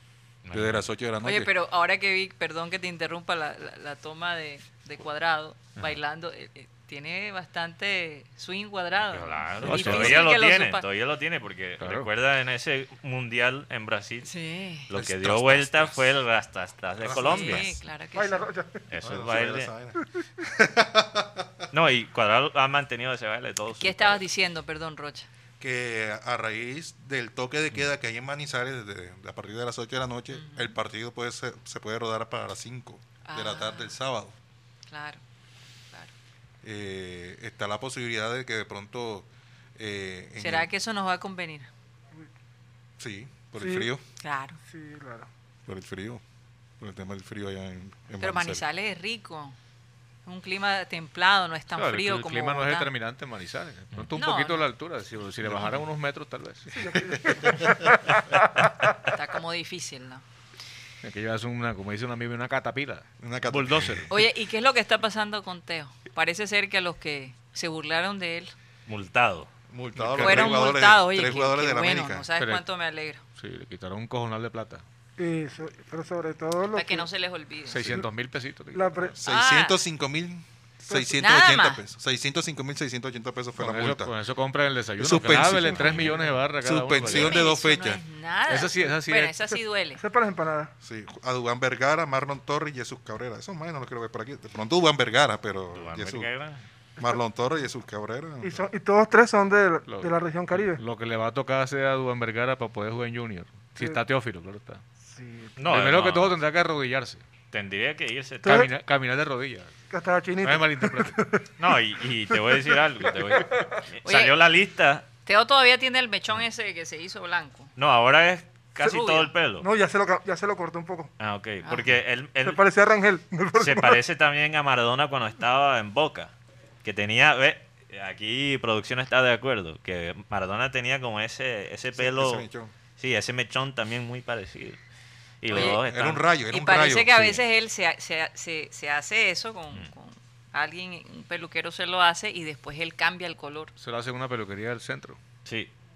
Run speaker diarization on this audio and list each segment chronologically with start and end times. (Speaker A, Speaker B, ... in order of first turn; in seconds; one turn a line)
Speaker A: 0.4-0.9
Speaker B: 0.5-1.5
Speaker C: 1.2-10.8
Speaker A: 9.1-14.3
Speaker B: 9.6-10.1
Speaker D: 9.6-10.3
Speaker D: 11.8-12.1
Speaker C: 14.2-14.9
Speaker A: 14.9-17.8
Speaker B: 14.9-16.1
Speaker B: 17.0-17.7
Speaker C: 17.1-18.5
Speaker E: 18.1-18.8
Speaker A: 18.9-19.7
Speaker B: 19.0-21.7
Speaker A: 21.7-24.2
Speaker C: 23.8-25.3
Speaker B: 25.6-34.4
Speaker C: 30.3-30.7
Speaker C: 33.2-34.0
Speaker C: 34.9-35.2
Speaker B: 36.6-40.7
Speaker C: 40.4-41.7
Speaker B: 43.0-44.0
Speaker E: 43.6-43.9
Speaker C: 44.2-44.6
Speaker E: 44.6-45.3
Speaker B: 45.6-46.2
Speaker B: 46.8-48.6
Speaker C: 48.2-49.5
Speaker C: 50.2-52.9
Speaker D: 51.7-56.7
Speaker C: 54.1-54.7
Speaker E: 56.7-58.8
Speaker C: 59.1-60.2
Speaker D: 61.0-64.1
Speaker B: 63.2-64.1
Speaker C: 64.1-68.5
Speaker A: 68.8-69.5
Speaker B: 69.7-72.3
Speaker D: 70.0-70.3
Speaker C: 70.2-73.2
Speaker D: 72.4-72.6
Speaker D: 73.4-74.8
Speaker E: 75.2-77.1
Speaker C: 76.7-77.9
Speaker D: 77.7-79.1
Speaker E: 78.7-79.1
Speaker B: 79.2-84.1
Speaker C: 79.2-79.8
Speaker E: 80.9-81.1
Speaker C: 81.1-81.8
Speaker D: 83.6-87.4
Speaker B: 85.0-88.0
Speaker A: 85.7-86.2
Speaker C: 87.0-90.0
Speaker D: 88.5-89.3
Speaker E: 90.0-90.7
Speaker B: 90.8-96.3
Speaker A: 95.7-96.6
Speaker B: 97.0-98.7
Speaker E: 98.4-100.8
Speaker D: 99.9-104.8
Speaker E: 105.0-105.6
Speaker A: 105.6-106.4
Speaker D: 105.6-107.2
Speaker A: 107.5-108.6
Speaker D: 108.5-109.7
Speaker E: 109.9-111.5
Speaker D: 110.4-111.2
Speaker A: 111.6-115.1
Speaker E: 112.3-113.8
Speaker C: 114.0-114.3
Speaker C: 115.2-117.7
Speaker A: 117.8-119.7
Speaker C: 118.8-119.3
Speaker E: 119.6-121.1
Speaker A: 121.2-122.6
Speaker E: 122.4-124.0
Speaker A: 123.5-126.3
Speaker A: 126.8-132.4
Speaker B: 131.9-132.7
Speaker A: 133.0-134.8
Speaker A: 135.4-136.2
Speaker B: 135.5-137.4
Speaker C: 135.5-135.8
Speaker C: 136.5-143.7
Speaker D: 143.8-145.2
Speaker A: 145.4-145.7